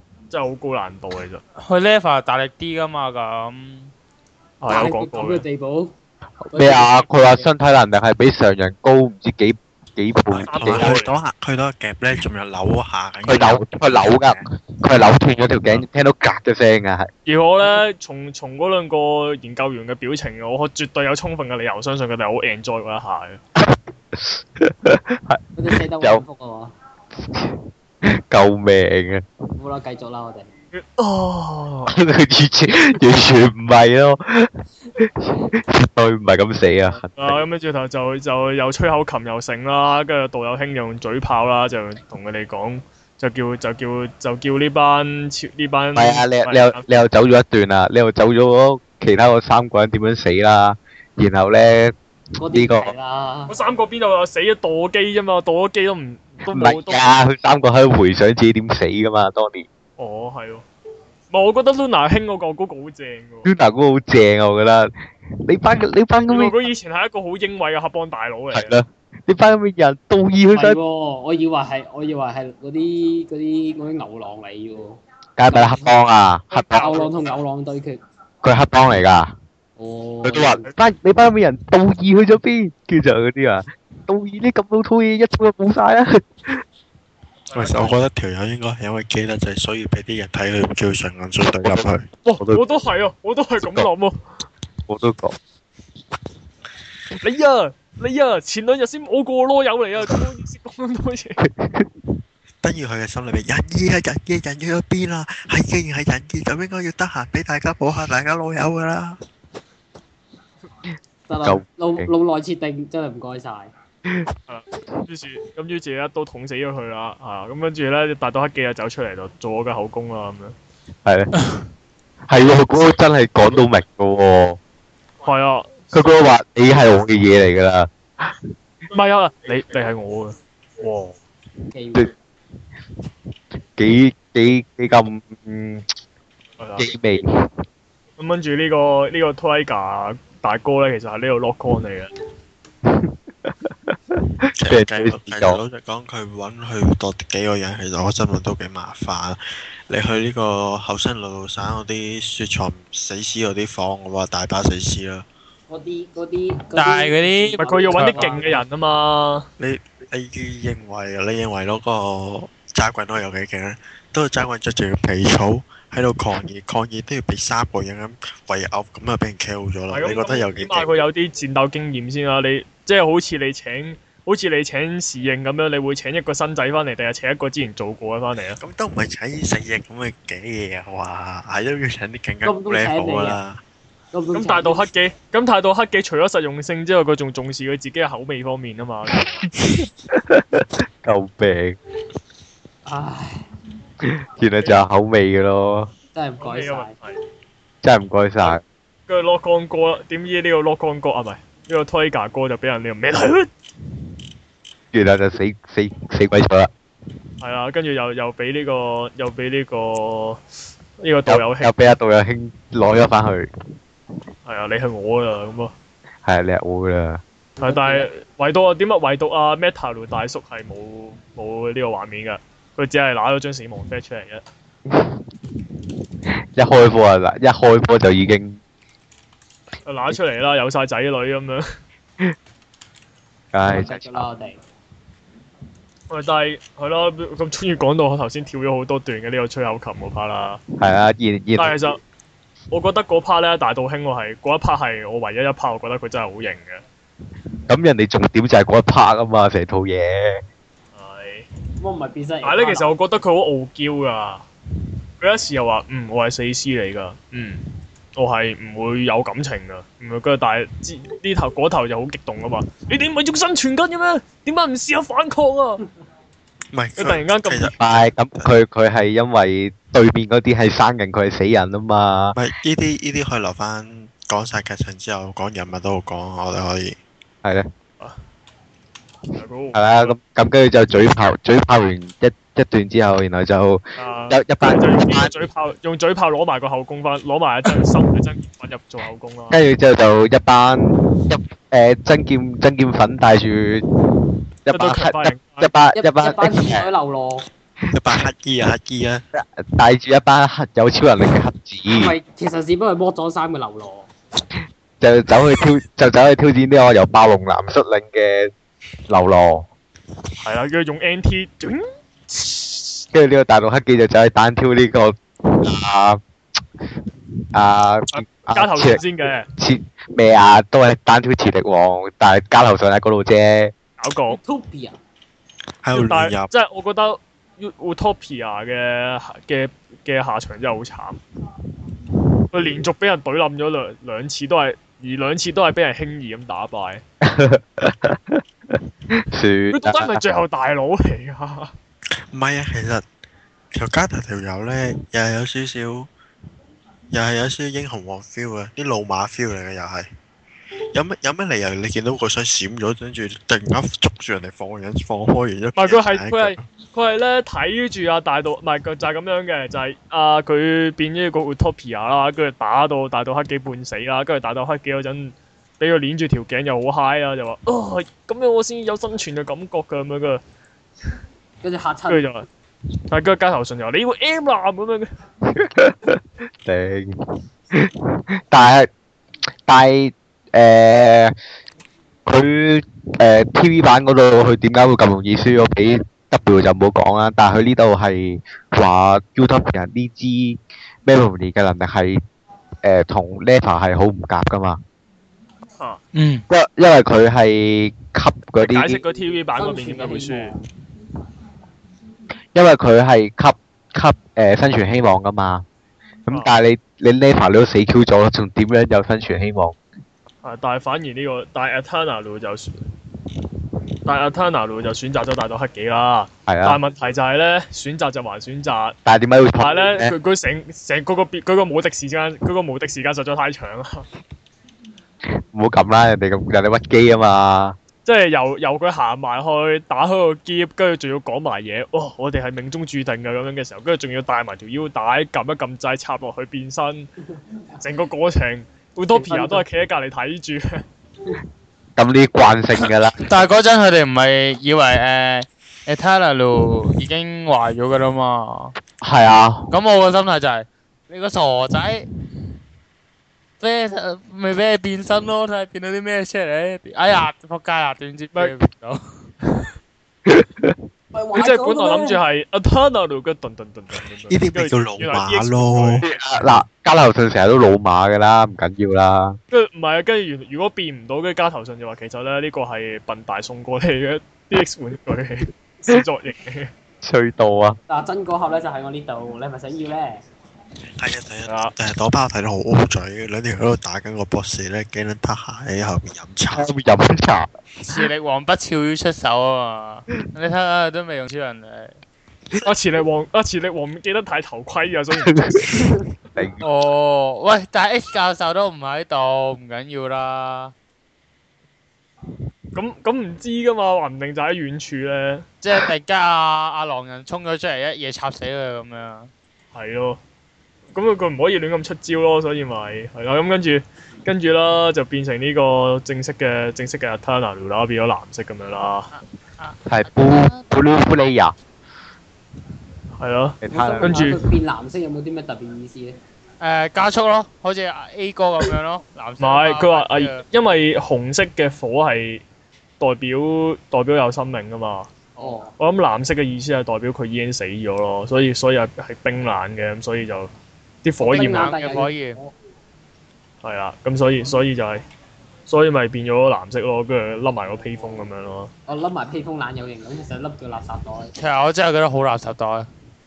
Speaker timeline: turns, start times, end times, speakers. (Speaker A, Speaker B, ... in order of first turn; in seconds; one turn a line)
Speaker A: 0.3-1.4
Speaker B: 1.6-3.9
Speaker A: 4.6-5.4
Speaker C: 4.7-5.9
Speaker D: 6.5-11.0
Speaker C: 6.5-7.5
Speaker E: 10.3-14.4
Speaker A: 10.4-11.1
Speaker D: 13.2-17.1
Speaker A: 17.2-23.4
Speaker D: 23.6-26.2
Speaker C: 25.6-26.7
Speaker D: 27.3-29.2
Speaker C: 29.6-30.5
Speaker A: 30.7-31.9
Speaker D: 31.9-37.4
Speaker A: 37.1-46.9
Speaker D: 46.0-51.9
Speaker C: 52.4-53.5
Speaker D: 52.5-52.9
Speaker A: 53.5-57.1
Speaker D: 56.5-59.7
Speaker A: 60.0-60.6
Speaker A: 61.3-63.5
Speaker D: 63.4-64.9
Speaker D: 65.4-66.6
Speaker A: 66.3-68.7
Speaker D: 68.5-70.8
Speaker C: 70.5-75.9
Speaker D: 75.4-76.9
Speaker A: 76.5-77.3
Speaker C: 76.7-78.0
Speaker D: 78.4-79.3
Speaker C: 79.8-80.7
Speaker D: 80.2-86.6
Speaker A: 87.5-88.0
Speaker E: 87.5-92.1
Speaker D: 91.5-91.9
Speaker A: 92.2-94.2
Speaker D: 93.6-93.9
Speaker D: 94.9-95.4
Speaker A: 97.2-101.4
Speaker D: 101.6-101.9
Speaker E: 102.6-109.2
Speaker C: 111.3-113.7
Speaker D: 111.4-112.1
Speaker A: 114.5-120.6
Speaker D: 121.0-121.3
Speaker D: 122.3-124.6
Speaker A: 125.2-126.2
Speaker D: 125.9-127.9
Speaker A: 128.9-131.2
Speaker C: 131.7-132.1
Speaker D: 133.8-135.9
Speaker A: 136.6-136.9
Speaker D: 136.8-137.5
Speaker A: 138.2-142.1
Speaker D: 142.8-145.6
Speaker E: 144.6-155.2
Speaker C: 155.7-158.6
Speaker B: 156.7-158.3
Speaker A: 157.6-159.5
Speaker E: 159.6-170.9
Speaker A: 169.9-178.6
Speaker E: 178.6-183.6
Speaker C: 182.4-183.4
Speaker C: 184.1-184.8
Speaker A: 184.3-189.4
Speaker D: 190.1-191.8
Speaker C: 192.8-193.4
Speaker D: 194.0-195.9
Speaker C: 196.1-196.9
Speaker A: 196.4-197.2
Speaker D: 197.8-198.6
Speaker A: 199.1-203.5
Speaker D: 204.9-206.7
Speaker A: 207.4-210.4
Speaker A: 211.0-211.7
Speaker D: 211.3-213.5
Speaker A: 214.4-215.7
Speaker D: 216.2-217.2
Speaker C: 217.6-218.1
Speaker A: 217.6-224.4
Speaker D: 224.9-225.2
Speaker D: 226.6-228.6
Speaker A: 229.9-231.6
Speaker D: 233.5-234.3
Speaker C: 233.7-234.6
Speaker A: 236.1-240.6
Speaker D: 240.8-241.9
Speaker A: 241.6-242.0
Speaker A: 242.7-246.8
Speaker D: 247.7-250.4
Speaker A: 250.9-251.5
Speaker C: 251.8-252.9
Speaker A: 252.4-254.4
Speaker A: 255.2-257.6
Speaker A: 258.1-265.8
Speaker E: 266.7-268.5
Speaker A: 267.0-267.7
Speaker D: 267.8-272.4
Speaker E: 272.3-277.0
Speaker D: 277.4-277.7
Speaker A: 279.3-280.1
Speaker D: 279.7-285.3
Speaker A: 284.0-289.6
Speaker D: 289.5-293.9
Speaker D: 294.6-296.9
Speaker A: 294.7-295.7
Speaker C: 295.9-297.5
Speaker E: 297.9-299.2
Speaker D: 299.3-302.1
Speaker C: 301.9-304.1
Speaker D: 305.0-308.5
Speaker D: 309.1-309.6
Speaker A: 310.4-313.0
Speaker D: 313.1-316.2
Speaker D: 317.5-319.0
Speaker A: 318.1-319.4
Speaker D: 319.6-323.7
Speaker A: 324.0-324.4
Speaker C: 324.3-325.0
Speaker E: 325.8-326.5
Speaker A: 325.9-331.2
Speaker A: 332.5-337.0
Speaker D: 337.2-340.2
Speaker A: 339.7-341.7
Speaker E: 342.3-343.1
Speaker E: 343.7-346.1
Speaker E: 347.1-350.1
Speaker E: 350.9-356.6
Speaker A: 355.8-370.4
Speaker C: 371.6-372.2
Speaker A: 372.1-372.5
Speaker A: 373.1-375.1
Speaker D: 375.5-377.1
Speaker D: 377.7-378.9
Speaker D: 379.7-381.4
Speaker D: 382.2-392.2
Speaker D: 392.8-394.8
Speaker B: 396.1-396.4
Speaker D: 396.5-399.0
Speaker A: 398.6-400.5
Speaker C: 399.6-400.6
Speaker D: 402.5-405.6
Speaker D: 406.3-409.8
Speaker A: 410.4-412.7
Speaker A: 414.1-418.9
Speaker D: 416.5-416.8
Speaker D: 419.1-420.1
Speaker A: 419.6-424.1
Speaker D: 425.3-427.8
Speaker A: 428.1-437.1
Speaker A: 437.8-440.8
Speaker C: 439.1-439.6
Speaker D: 442.0-443.4
Speaker B: 443.2-448.8
Speaker D: 449.0-449.7
Speaker B: 449.7-452.1
Speaker B: 453.6-459.0
Speaker D: 460.2-460.8
Speaker C: 461.1-462.2
Speaker A: 461.4-466.1
Speaker E: 464.3-466.1
Speaker D: 466.0-469.4
Speaker A: 469.5-476.7
Speaker D: 477.0-477.8
Speaker C: 477.9-480.2
Speaker E: 481.0-486.7
Speaker A: 481.4-481.7
Speaker D: 486.6-487.5
Speaker B: 487.9-492.0
Speaker A: 492.6-495.4
Speaker D: 495.2-496.6
Speaker B: 496.6-500.7
Speaker A: 502.7-505.5
Speaker B: 505.6-509.3
Speaker A: 509.7-510.2
Speaker A: 510.9-519.1
Speaker B: 519.6-520.6
Speaker D: 519.9-521.5
Speaker A: 523.2-524.4
Speaker D: 523.6-524.4
Speaker C: 523.7-526.2
Speaker B: 526.6-530.4
Speaker A: 529.4-532.4
Speaker A: 533.0-540.5
Speaker C: 535.4-535.7
Speaker A: 541.0-541.7
Speaker C: 541.2-542.5
Speaker B: 541.4-542.4
Speaker A: 543.6-545.0
Speaker A: 545.7-548.7
Speaker C: 548.9-551.3
Speaker B: 551.4-552.9